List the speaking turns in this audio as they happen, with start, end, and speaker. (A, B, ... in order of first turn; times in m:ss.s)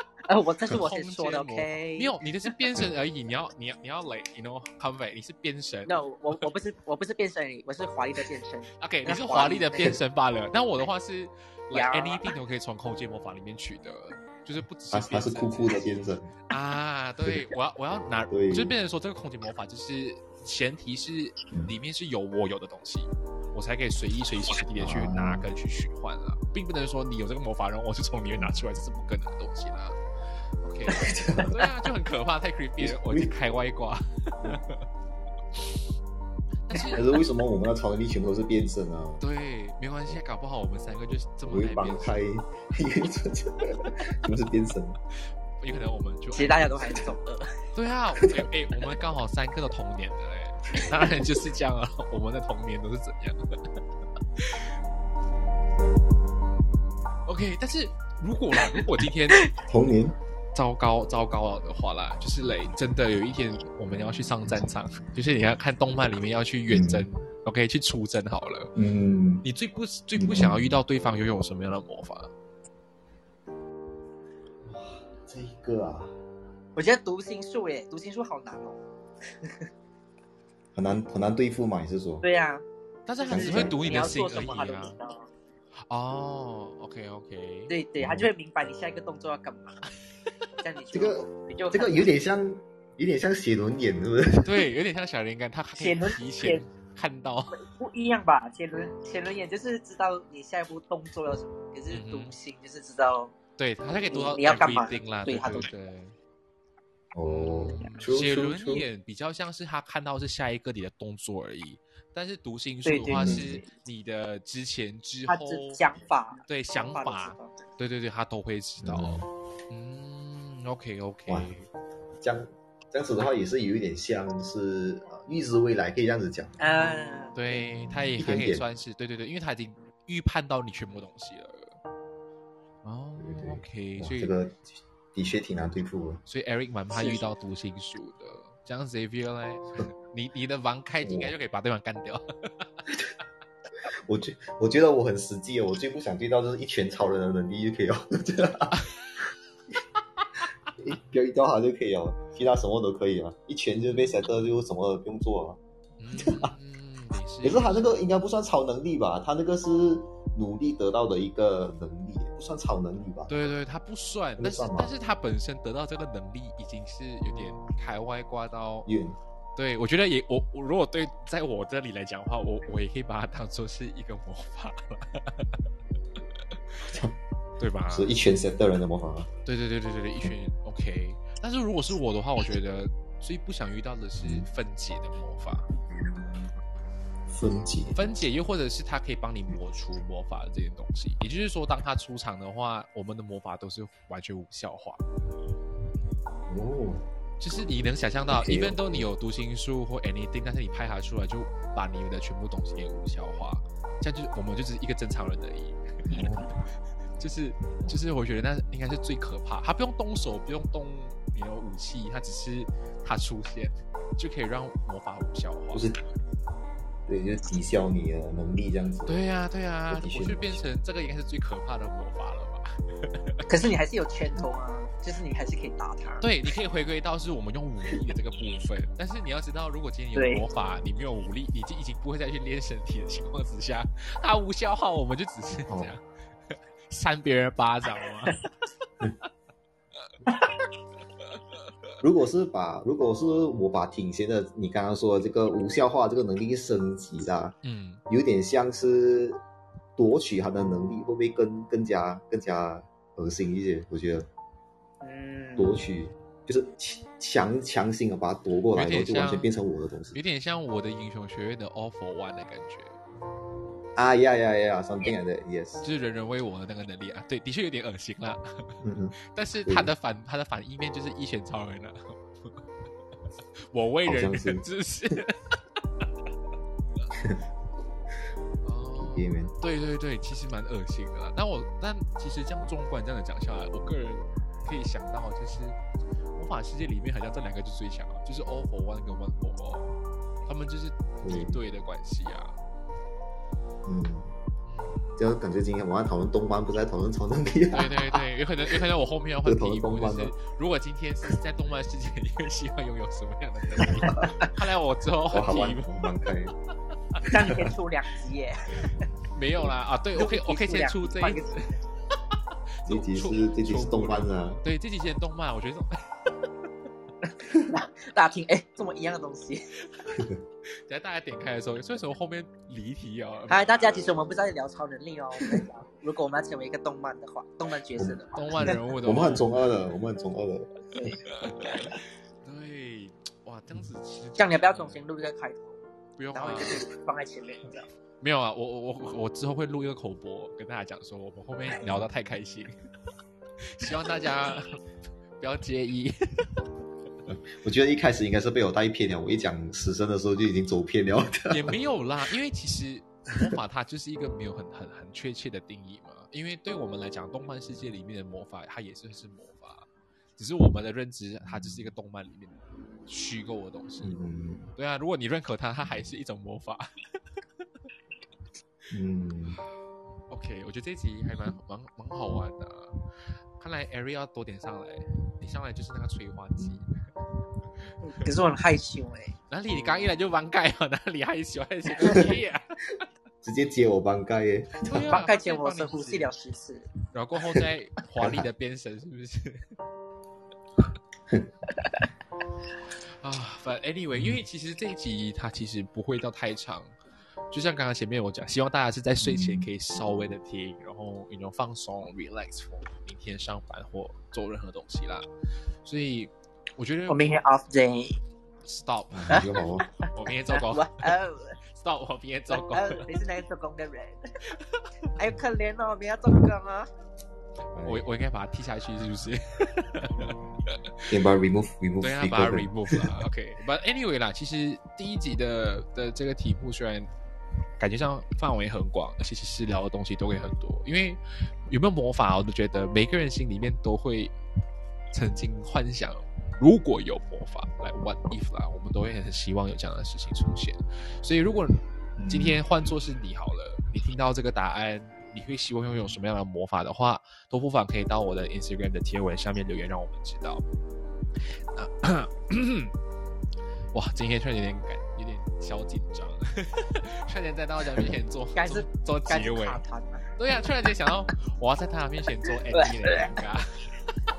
0:00.3-0:02.2 A
0:00.7-0:06.4 B
0:05.9-0:09.9 A
0:08.8-0:15.8 B
0:11.7-0:12.3 A
0:14.9-0:16.4 C
0:16.5-0:30.0 B
0:18.3-0:18.8 C
0:24.8-0:25.5 C
0:30.6-0:34.8 B
0:30.9-0:31.7 C
0:32.8-0:33.3 C
0:36.7-0:37.1 B
0:36.9-0:39.2 C
0:39.2-0:42.2 B
0:41.5-0:45.0 C
0:45.6-0:47.0 B
0:46.3-0:47.6 A
0:47.7-0:53.4 B
0:54.4-0:54.7 B
0:57.3-0:59.5 B
0:59.6-1:00.2 C
1:00.5-1:08.7 B
1:06.7-1:07.1 C
1:08.8-1:09.4 C
1:09.4-1:12.3 B
1:10.2-1:10.8 C
1:14.6-1:16.1 C
1:16.8-1:18.8 A
1:20.7-1:22.2 C
1:22.2-1:22.6 A
1:23.1-1:25.0 B
1:23.2-1:25.3 A
1:23.3-1:24.0 C
1:25.9-1:27.7 B
1:27.7-1:29.8 A
1:28.0-1:28.3 C
1:30.6-1:32.2 A
1:30.9-1:34.7 C
1:34.4-1:37.6 B
1:35.8-1:36.6 A
1:37.5-1:43.3 A
1:41.9-1:42.4 B
1:43.6-1:46.2 B
1:44.1-1:45.7 A
1:47.1-1:48.9 C
1:47.3-1:55.8 B
1:52.8-1:53.6 A
1:53.1-1:53.6 C
1:55.3-1:57.6 A
1:56.4-2:01.7 B
1:58.8-1:59.3 C
2:01.3-2:01.5 C
2:02.2-2:06.6 C
2:06.6-2:07.4 A
2:07.3-2:11.8 B
2:07.9-2:08.6 C
2:12.8-2:14.3 B
2:13.2-2:16.2 C
2:16.3-2:23.0 B
2:16.9-2:17.2 A
2:21.0-2:21.3 C
2:24.1-2:28.8 C
2:30.8-2:35.6 C
2:36.0-2:37.9 B
2:36.2-2:36.5 C
2:37.4-2:43.5 C
2:43.3-2:48.9 B
2:44.4-2:44.9 C
2:48.9-2:49.2 C
2:49.6-2:55.5 B
2:56.9-2:57.2 C
2:57.6-2:58.1 B
2:57.9-2:59.3 C
2:59.5-3:05.7 B
3:04.2-3:04.5 C
3:05.8-3:06.5 C
3:07.3-3:08.0 C
3:07.9-3:15.0 B
3:16.5-3:17.1 C
3:17.4-3:26.5 B
3:18.3-3:19.1 C
3:26.1-3:26.5 C
3:27.2-3:35.9 B
3:35.7-3:36.0 C
3:37.1-3:39.2 C
3:39.1-3:43.4 B
3:39.9-3:40.6 C
3:43.5-3:46.3 A
3:46.2-3:56.0 B
3:50.2-3:50.4 A
3:55.7-3:56.0 C
3:56.9-3:58.4 B
4:02.0-4:07.6 C
4:07.6-4:08.0 B
4:08.1-4:09.4 C
4:10.0-4:14.3 C
4:15.0-4:15.8 A
4:15.6-4:20.2 C
4:18.7-4:19.5 B
4:20.1-4:23.0 B
4:24.0-4:25.8 C
4:25.8-4:32.6 B
4:28.8-4:29.9 C
4:33.7-4:36.1 B
4:34.0-4:34.6 C
4:38.6-4:45.8 B
4:39.0-4:39.6 C
4:46.4-4:49.9 B
4:50.5-4:52.6 B
4:51.2-4:51.6 C
4:53.9-4:54.3 C
4:54.7-4:55.2 B
4:55.2-4:58.2 C
4:57.7-5:06.0 B
4:59.4-5:00.4 C
5:03.8-5:04.2 C
5:05.3-5:06.5 C
5:07.3-5:08.7 A
5:08.9-5:11.7 B
5:10.1-5:11.8 A
5:12.8-5:16.3 B
5:12.9-5:14.6 C
5:17.6-5:19.7 A
5:20.9-5:24.4 B
5:23.5-5:28.7 A
5:28.0-5:31.1 C
5:28.4-5:29.5 B
5:31.3-5:35.0 B
5:34.4-5:35.8 A
5:36.2-5:36.8 B
5:36.3-5:37.9 A
5:38.2-5:42.7 B
5:43.7-5:44.8 B
5:45.4-5:46.5 B
5:47.3-5:51.8 C
5:51.5-6:04.2 B
6:01.4-6:01.9 C
6:04.0-6:04.7 C
6:04.8-6:06.9 B
6:08.9-6:09.6 C
6:10.3-6:13.0 B
6:13.6-6:17.0 B
6:18.0-6:19.4 A
6:19.5-6:22.7 B
6:22.0-6:22.4 C
6:23.4-6:25.2 C
6:24.8-6:26.3 B
6:25.1-6:26.9 A
6:27.1-6:29.6 B
6:28.2-6:28.5 C
6:33.2-6:37.0 B
6:37.5-6:45.2 B
6:39.2-6:39.7 C
6:45.8-6:47.4 B
6:47.1-6:48.2 A
6:48.6-6:51.1 B
6:49.1-6:49.9 C
6:50.5-6:51.6 A
6:51.7-6:53.1 B
6:52.5-6:54.2 A
6:54.5-6:54.9 B
6:55.1-6:56.9 A
6:57.8-6:58.1 C
6:57.8-7:01.0 B
7:01.1-7:03.2 C
7:02.0-7:07.1 B
7:07.8-7:14.3 B
7:15.1-7:30.6 B
7:22.2-7:22.6 C
7:31.8-7:32.9 B
7:33.9-7:39.8 B
7:38.6-7:40.3 A
7:40.4-7:44.1 B
7:42.7-7:43.3 A